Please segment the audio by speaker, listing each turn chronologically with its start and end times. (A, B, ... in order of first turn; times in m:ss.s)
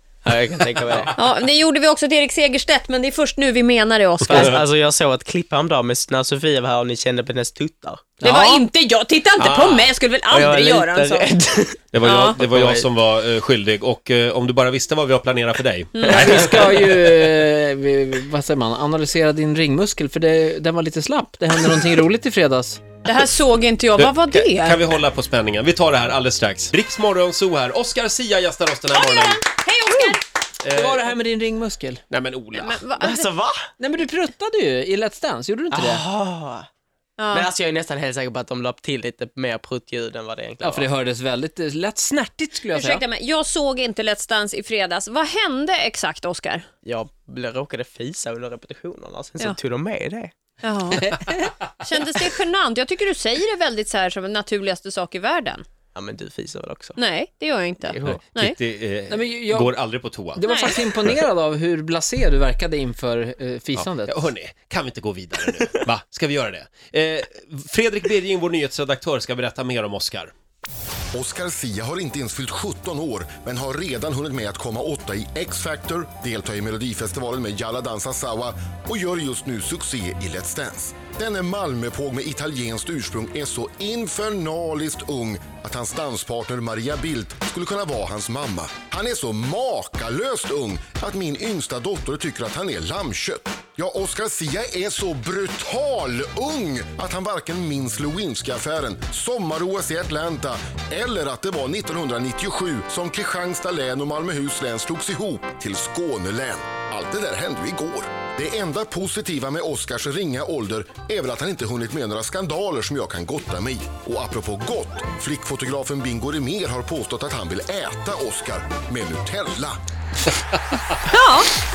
0:00.2-0:01.1 A
0:01.2-0:04.6 B
0:04.2-0:08.3 A
0:08.2-0:08.6 C
0:08.2-0:11.3 B
0:09.4-0:09.9 D
0:10.3-0:12.9 A
0:11.9-0:16.8 D
0:12.0-0:12.4 B
0:16.0-0:16.2 B
0:16.1-0:22.8 C
0:23.0-0:24.8 B
0:24.0-0:29.4 D
0:28.9-0:30.2 B
0:30.6-0:31.1 D
0:30.7-0:32.0 C
0:32.1-0:32.8 D
0:32.5-0:33.3 B
0:33.0-0:33.7 A
0:33.8-0:36.0 C
0:35.7-0:36.7 A
0:37.2-0:37.5 B
0:37.3-0:40.9 A
0:40.6-0:43.0 C
0:42.7-0:46.7 B
0:46.8-0:50.3 A
0:50.6-0:55.7 B
0:51.1-0:51.4 C
0:55.9-0:57.0 A
0:57.0-0:58.6 B
0:57.8-0:58.2 A
0:58.1-1:01.1 D
0:59.1-0:59.8 C
1:00.3-1:04.2 C
1:00.4-1:00.8 B
1:03.8-1:10.3 D
1:11.1-1:59.8 E
2:01.1-2:01.5 B